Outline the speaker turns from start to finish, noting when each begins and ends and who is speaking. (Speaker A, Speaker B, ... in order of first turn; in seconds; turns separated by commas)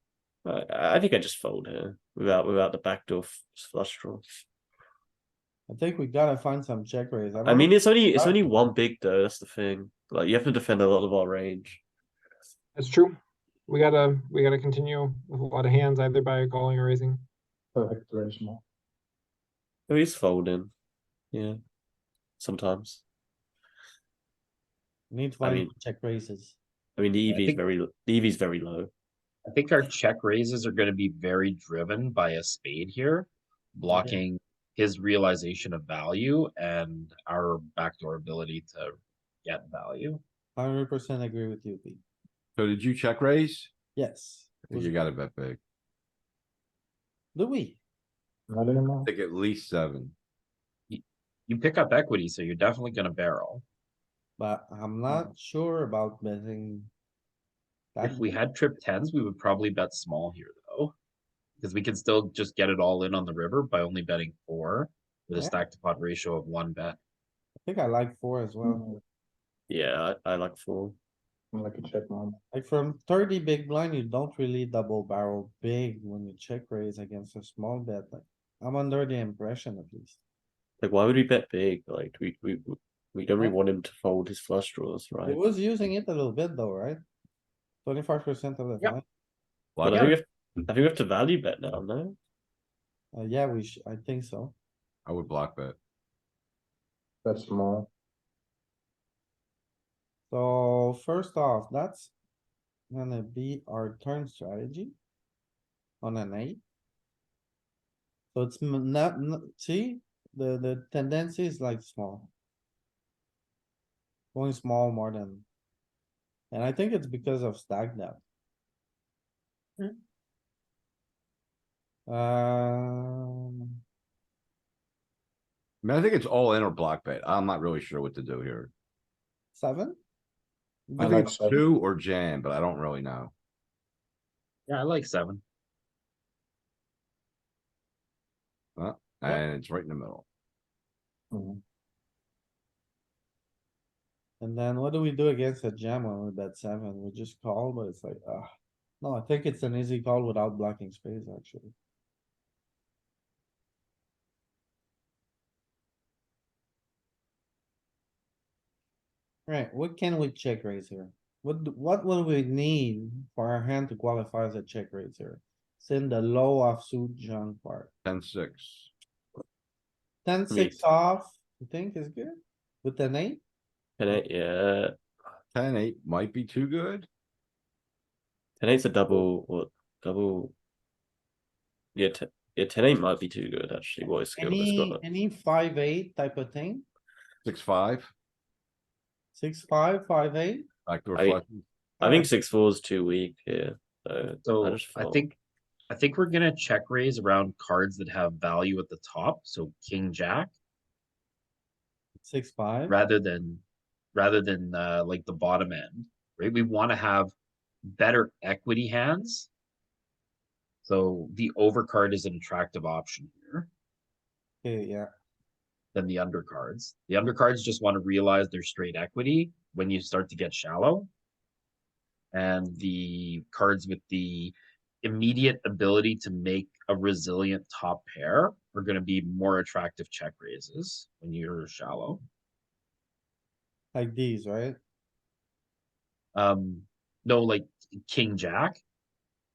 Speaker A: 0.5-4.4, Speaker B: 5.7-8.4, Speaker A: 7.4-11.8, Speaker C: 12.8-13.2, Speaker C: 13.7-17.2, Speaker D: 17.8-18.6, Speaker A: 19.9-20.7, Speaker A: 21.3-21.6, Speaker A: 22.4-23.0, Speaker B: 25.1-26.6, Speaker A: 25.4-25.7, Speaker A: 27.0-28.9, Speaker E: 27.3-27.6, Speaker E: 29.5-40.2, Speaker B: 33.9-34.2, Speaker B: 40.6-42.0, Speaker F: 42.6-43.7, Speaker B: 44.0-44.9, Speaker F: 44.7-45.6, Speaker B: 47.4-47.8, Speaker D: 48.5-49.1, Speaker F: 49.0-50.1, Speaker E: 50.9-53.6, Speaker B: 54.4-56.9, Speaker B: 58.0-58.4, Speaker E: 58.0-60.9, Speaker E: 61.6-67.0, Speaker B: 65.3-65.6, Speaker B: 67.6-68.8, Speaker D: 68.7-69.0, Speaker A: 69.7-71.0, Speaker D: 71.5-72.4, Speaker B: 72.5-80.2, Speaker A: 80.8-85.4, Speaker B: 85.2-87.0, Speaker B: 87.8-89.0, Speaker F: 89.8-90.2, Speaker A: 89.8-92.2, Speaker B: 93.1-94.5, Speaker F: 95.1-95.8, Speaker D: 97.2-97.9, Speaker B: 100.3-102.1, Speaker B: 102.9-104.9, Speaker B: 106.0-106.6, Speaker B: 108.3-112.3, Speaker B: 114.3-115.5, Speaker B: 116.5-118.2, Speaker B: 122.1-123.7, Speaker F: 125.8-128.7, Speaker B: 129.5-130.0, Speaker B: 130.9-131.3, Speaker D: 131.0-131.6, Speaker F: 131.0-133.3, Speaker E: 134.7-135.4, Speaker F: 138.8-140.2, Speaker D: 141.3-141.6, Speaker B: 144.4-148.5, Speaker B: 149.0-151.7, Speaker B: 159.5-167.9, Speaker F: 168.1-168.9, Speaker B: 170.2-173.4, Speaker A: 170.5-170.8, Speaker A: 174.0-175.0, Speaker F: 175.5-177.1, Speaker A: 178.6-180.5, Speaker A: 181.9-185.0, Speaker B: 184.4-186.9, Speaker F: 187.4-188.1, Speaker B: 189.3-190.7, Speaker F: 190.9-191.6, Speaker A: 191.2-191.4, Speaker B: 192.0-192.3, Speaker A: 192.0-195.3, Speaker E: 194.4-195.3, Speaker E: 195.9-200.5, Speaker B: 202.2-203.0, Speaker E: 202.9-203.6, Speaker E: 204.1-207.3, Speaker E: 207.9-209.5, Speaker E: 210.8-213.7, Speaker B: 214.6-215.1, Speaker E: 215.9-221.1, Speaker E: 222.3-232.2, Speaker B: 233.9-234.8, Speaker E: 236.3-238.8